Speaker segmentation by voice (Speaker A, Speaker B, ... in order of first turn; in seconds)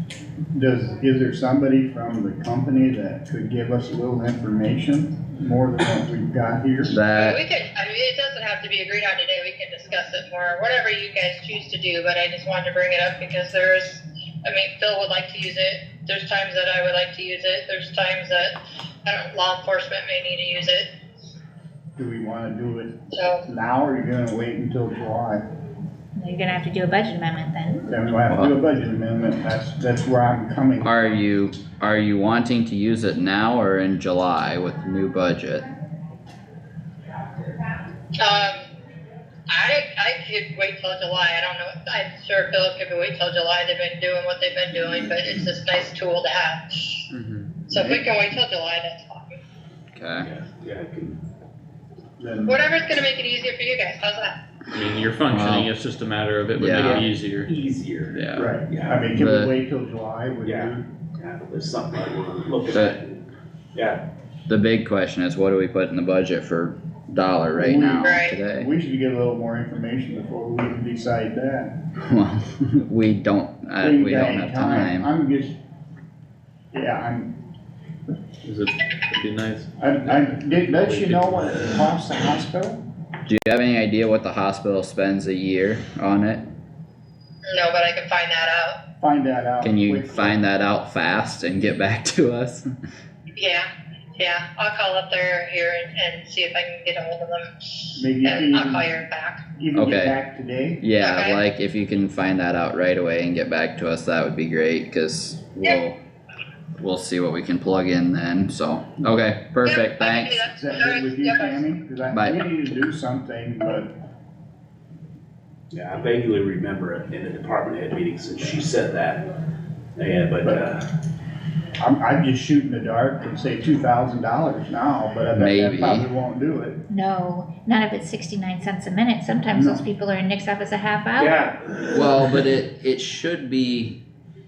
Speaker A: 0.5-7.0, 22.0-22.9, 23.5-25.4, 27.8-31.0, 52.2-52.6, 58.3-60.9, 67.6-71.7, 73.8-75.6, 76.7-77.3, 79.8-82.8, 89.0-90.4, 98.0-98.9, 99.6-100.8, 110.5-113.9, 121.8-126.8, 129.5-129.8
Speaker B: 6.9-7.4, 28.3-28.6, 30.8-35.7, 49.9-50.3, 55.3-55.7, 56.6-57.1, 58.1-58.5, 59.1-59.5, 62.7-63.0, 64.5-68.7, 72.0-75.1, 83.3-86.4, 89.6-92.7, 99.7-100.2, 100.8-106.0, 106.8-110.4, 112.1-112.4, 125.3-126.1, 131.9-134.0
Speaker C: 7.2-20.9, 23.1-23.4, 38.2-38.6, 39.5-47.1, 47.7-49.4, 52.5-54.4, 68.0-68.4, 87.5-88.8, 93.4-99.4, 101.0-101.4, 109.6-111.6
Speaker D: 26.2-27.8, 126.9-131.4
Speaker E: 47.1-47.5, 54.7-57.5, 78.4-81.6
Speaker F: 50.2-51.2, 56.8-59.1, 60.4-63.2, 63.8-64.0, 115.7-119.3, 120.0-120.8, 131.2-132.5